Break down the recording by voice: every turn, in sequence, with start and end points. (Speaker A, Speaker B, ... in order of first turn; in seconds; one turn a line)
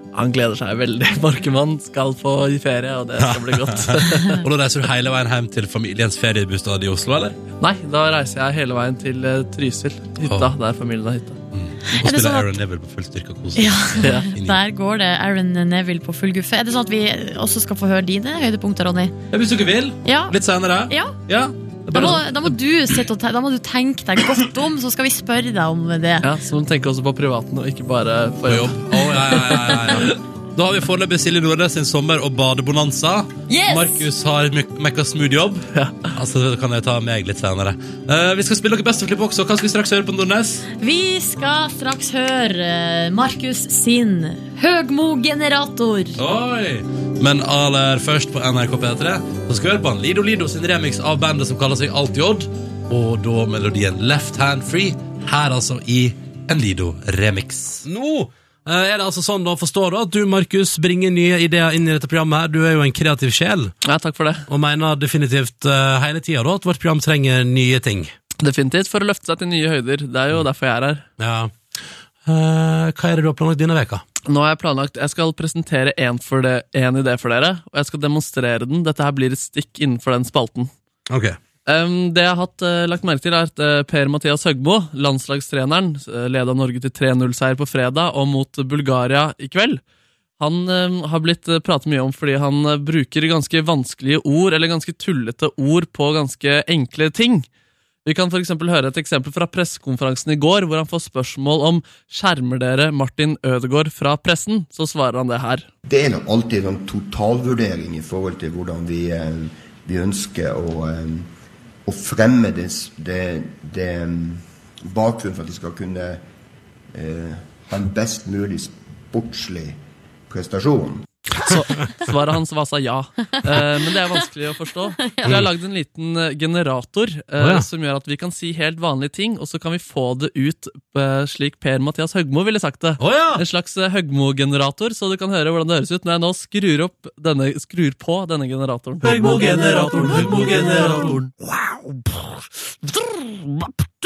Speaker A: 0.1-4.5
Speaker B: 3.2-7.4
Speaker A: 7.6-11.4
Speaker B: 10.2-10.5
Speaker B: 11.5-14.6
Speaker C: 11.9-12.5
Speaker C: 13.6-19.1
Speaker A: 14.0-14.3
Speaker B: 19.3-22.2
Speaker C: 20.1-20.3
Speaker C: 20.9-21.2
Speaker C: 21.9-26.3
Speaker A: 26.2-30.1
Speaker B: 28.5-40.6
Speaker C: 33.5-34.0
Speaker A: 35.7-36.1
Speaker C: 40.8-46.2
Speaker B: 46.2-63.7
Speaker A: 63.8-64.5
Speaker B: 64.5-68.1
Speaker A: 68.4-71.0
Speaker B: 71.2-71.5
Speaker B: 72.3-74.0
Speaker A: 74.2-80.7
Speaker B: 81.1-81.4
Speaker A: 81.7-89.8
Speaker A: 90.4-97.5
Speaker A: 98.0-105.7
Speaker D: 105.9-111.3
Speaker D: 111.9-116.2
Speaker D: 116.9-121.1
Speaker A: 121.4-141.3
Speaker C: 125.0-125.3
Speaker B: 127.4-127.7
Speaker B: 133.0-133.4
Speaker A: 141.9-142.2
Speaker A: 142.9-143.7